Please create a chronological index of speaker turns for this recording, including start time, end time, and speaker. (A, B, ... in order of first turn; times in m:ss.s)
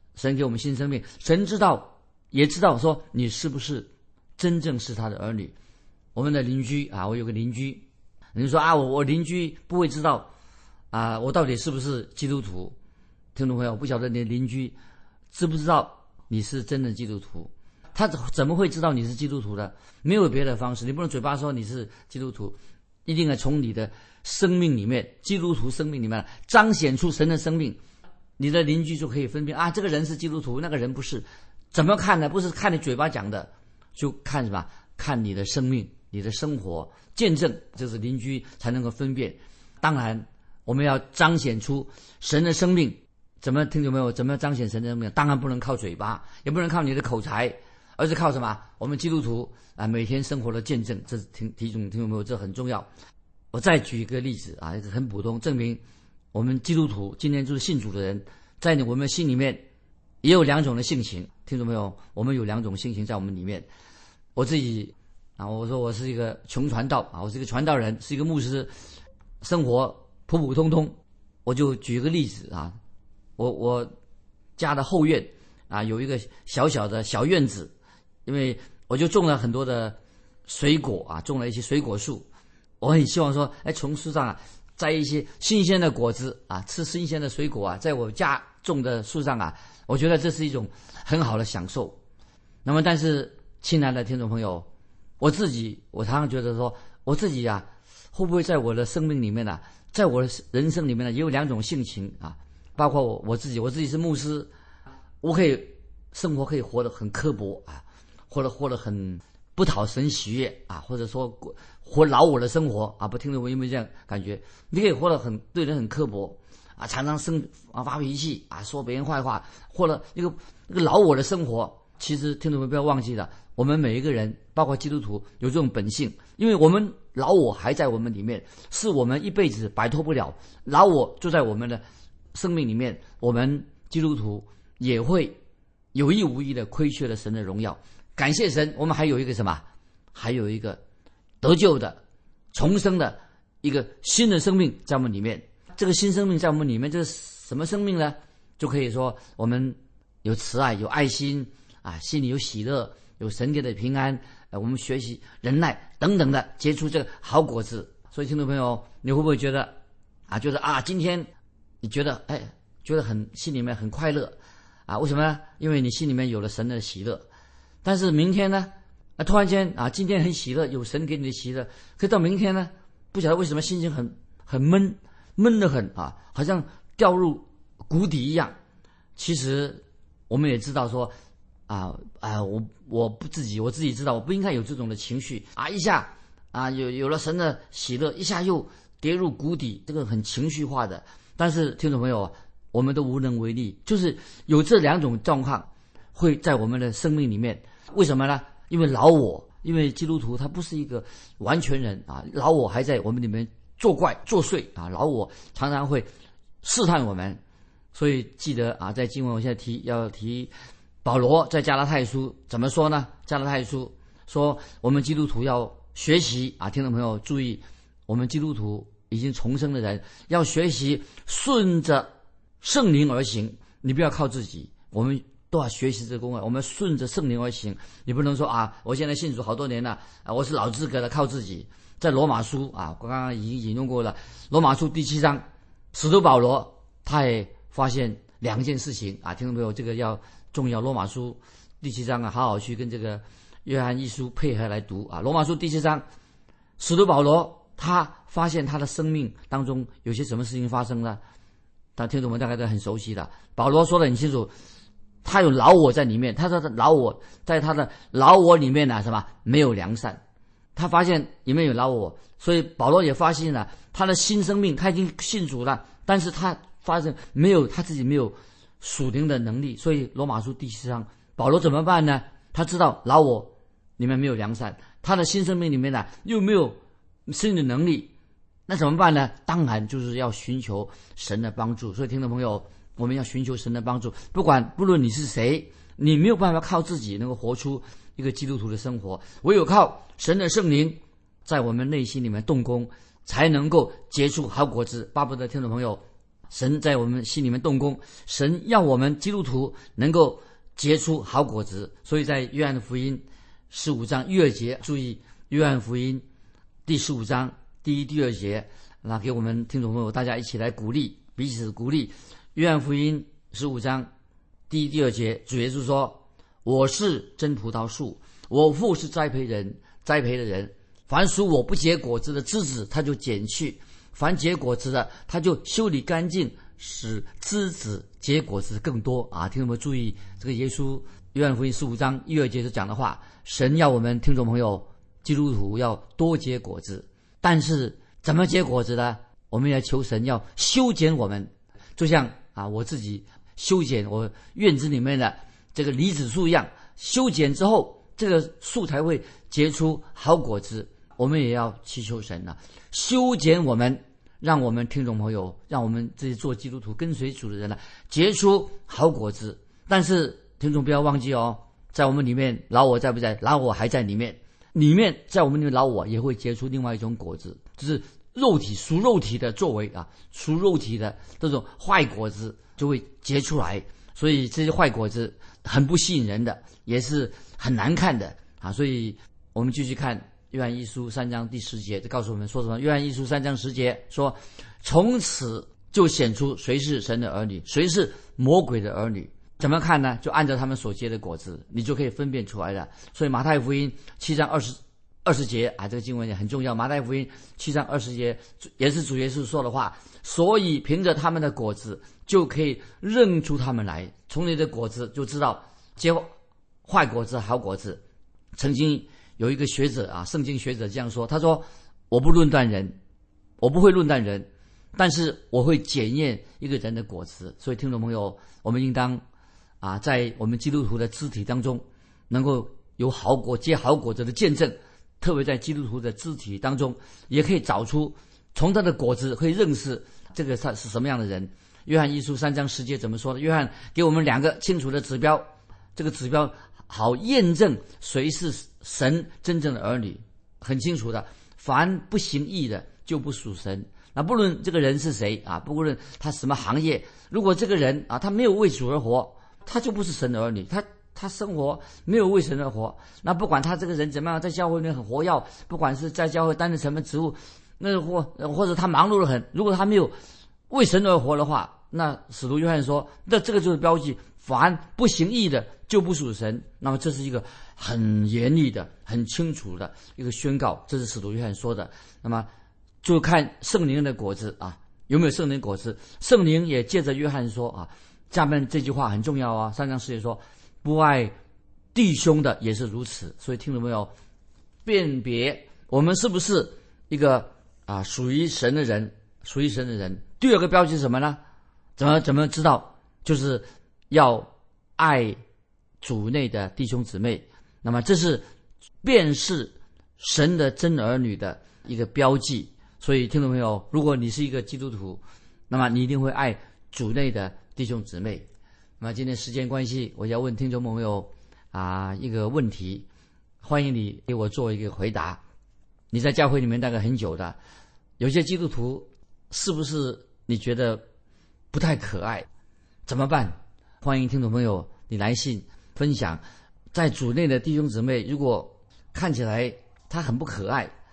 0:00.2-0:05.5 A
0:06.1-0:10.3 A
0:10.9-0:12.7 A
0:13.3-0:14.8 A
0:15.3-0:27.8 A
0:28.4-0:52.9 A
0:53.5-0:55.8 A
0:56.3-0:59.6 A
1:00.2-1:03.7 A
1:04.4-1:08.7 A
1:09.4-1:12.8 A
1:13.4-1:13.9 A
1:14.6-1:17.7 A
1:18.2-1:22.3 A
1:22.8-1:32.0 A
1:32.6-1:34.7 A
1:35.2-1:44.5 A
1:45.2-2:11.8 A
2:12.3-2:15.4 A
2:15.9-2:19.6 A
2:20.1-2:20.8 A
2:21.4-2:22.0 A
2:22.5-2:39.8 A
2:40.3-2:41.3 A
2:41.8-2:44.3 A
2:44.9-2:47.2 A
2:47.8-2:58.6 A
2:59.2-3:01.1 A
3:01.7-3:26.1 A
3:26.6-3:27.4 A
3:27.9-3:30.5 A
3:31.0-3:42.1 A
3:42.6-4:06.0 A
4:06.8-4:11.2 A
4:12.0-4:14.5 A
4:15.2-4:20.2 A
4:20.7-4:38.1 A
4:38.7-5:06.2 A
5:06.8-5:14.1 A
5:14.7-6:46.3 A
6:46.8-6:48.0 A
6:48.6-6:53.0 A
6:53.6-6:59.2 A
6:59.8-7:40.1 A
7:40.7-7:52.5 A
7:53.0-8:01.3 A
8:01.9-8:04.1 A
8:04.8-8:11.4 A
8:12.0-8:15.4 A
8:16.0-8:18.4 A
8:19.0-8:28.5 A
8:29.0-8:33.0 A
8:33.6-8:35.4 A
8:36.1-8:37.6 A
8:38.2-8:41.0 A
8:41.7-8:42.5 A
8:43.0-8:46.4 A
8:46.9-8:50.9 A